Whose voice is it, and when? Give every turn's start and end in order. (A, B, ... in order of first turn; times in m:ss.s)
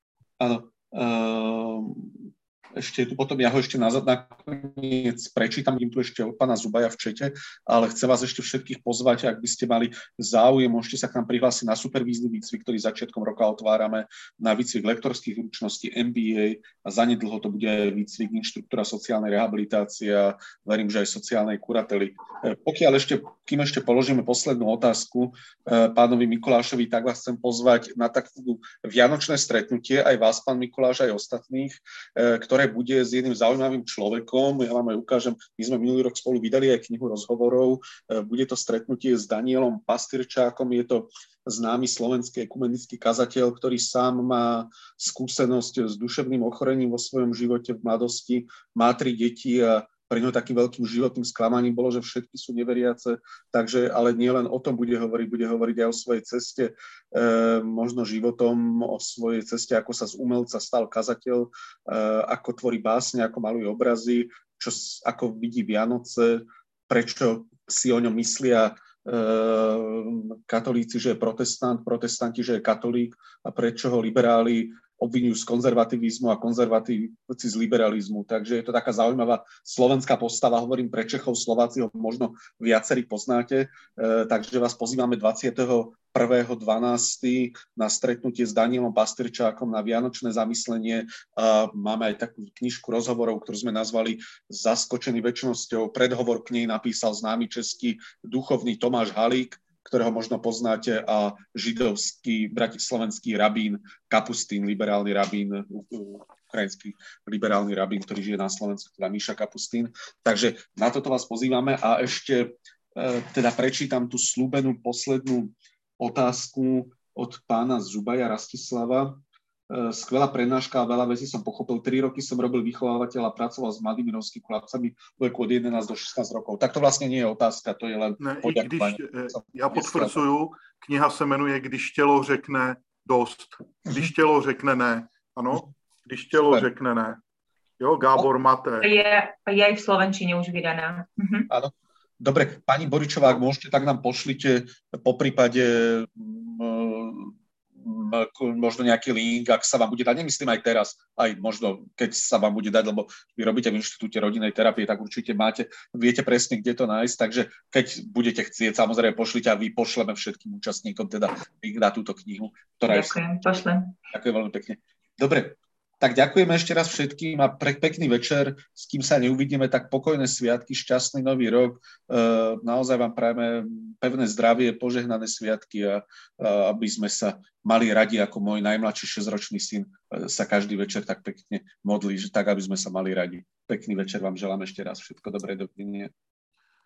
0:00.4-2:10.2 A
2:08.2-2:17.2 B
2:16.3-2:16.7 A
2:17.8-2:18.9 B
2:18.8-2:21.5 C
2:21.5-2:43.2 A
2:42.9-2:43.9 C
2:44.1-3:06.1 A